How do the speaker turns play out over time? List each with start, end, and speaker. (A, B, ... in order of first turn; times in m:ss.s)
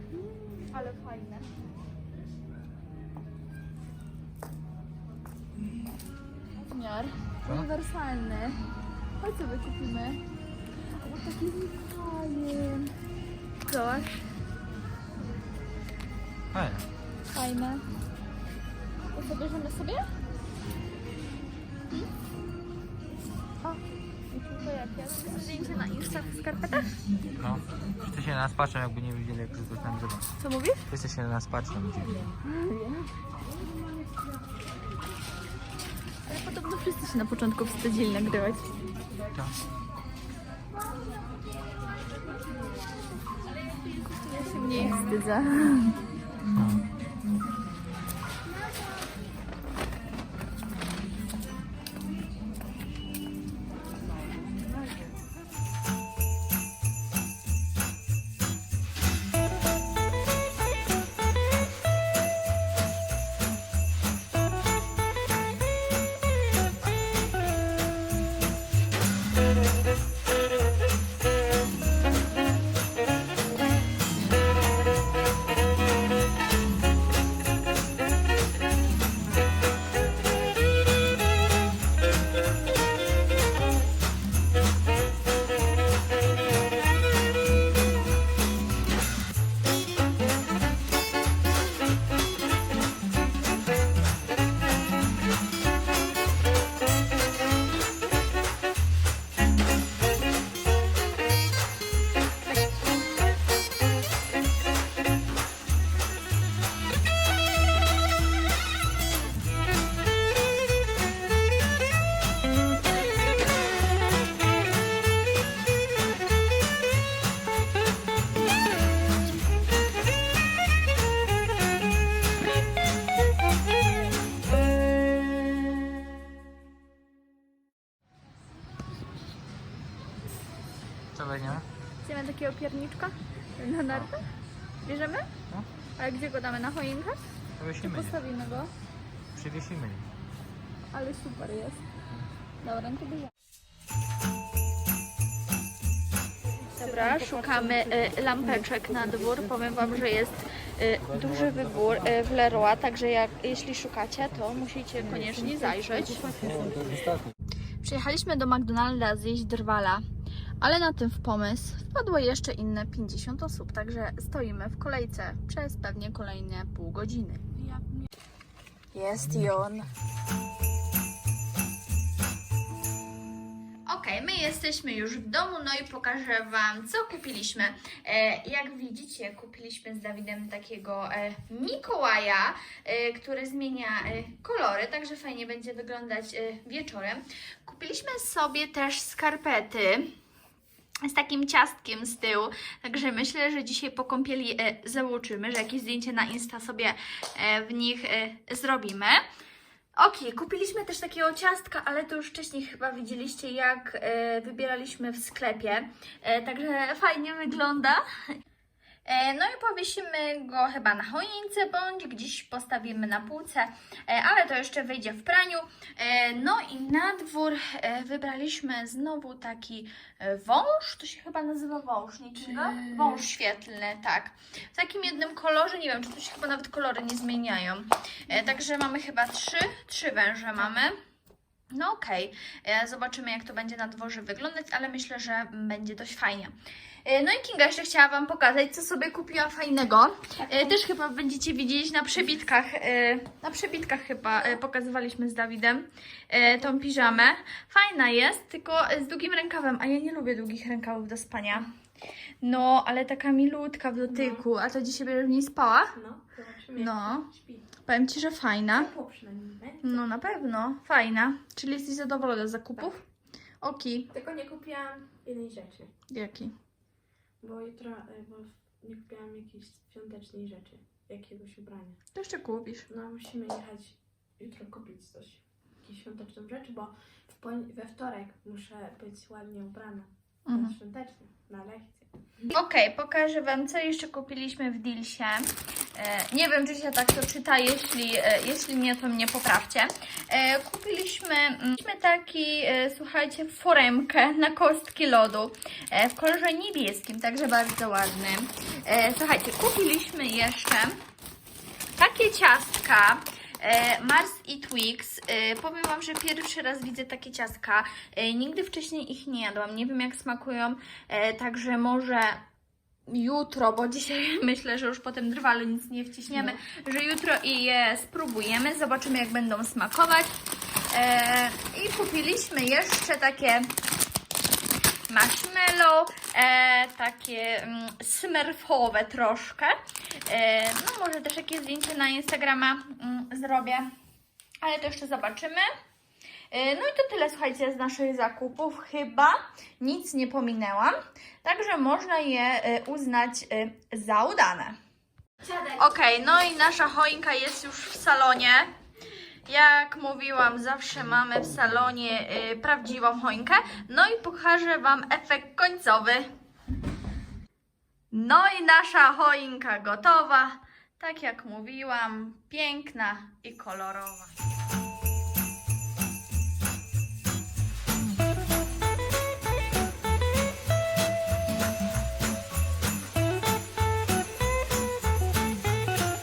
0:00.5-0:01.5 A
0:06.6-0:08.6 A
0:09.2-0:10.2 A
0:10.9-0:12.9 A
0:13.6-0:14.2 A
0:16.5-0:16.8 B
0:17.3-0:17.8 A
0:19.1-0:20.1 A
0:23.6-0:27.0 A
0:27.4-0:30.3 B
0:30.4-0:30.8 A
0:30.9-0:32.3 B
0:32.4-0:33.1 A
0:36.2-0:38.8 A
0:43.7-0:46.0 A
0:46.5-0:46.8 B
2:11.1-2:11.6 B
2:12.0-2:14.3 A
2:14.8-2:15.3 A
2:16.0-2:17.2 A
2:17.6-2:18.2 B
2:17.8-2:18.7 A
2:19.3-2:20.1 B
2:20.9-2:21.8 A
2:22.6-2:23.3 A
2:26.6-2:36.7 A
2:37.8-2:40.0 A
2:40.6-2:47.6 A
2:48.9-2:49.9 A
2:53.9-3:10.1 A
3:11.0-3:19.2 A
3:20.0-3:28.0 A
3:29.0-3:51.0 A
3:51.7-3:56.5 A
3:57.0-4:11.7 A
4:12.4-4:15.9 A
4:14.1-4:14.4 C
4:15.9-4:17.6 C
4:16.8-4:17.3 A
4:17.8-4:18.9 A
4:18.8-4:20.0 C
4:19.8-4:23.0 A
4:23.6-4:24.1 A
4:24.1-4:25.9 C
4:26.1-4:26.5 A
4:27.4-4:32.0 C
4:32.1-4:32.8 A
4:32.9-4:42.4 C
4:40.5-4:40.8 A
4:42.5-5:01.0 A
5:02.0-5:12.4 A
5:13.1-5:20.3 A
5:20.9-5:23.7 A
5:25.1-5:33.9 A
5:34.6-5:35.6 A
5:36.5-5:44.8 A
5:45.4-5:48.7 A
5:49.5-5:56.3 A
5:58.1-6:04.3 A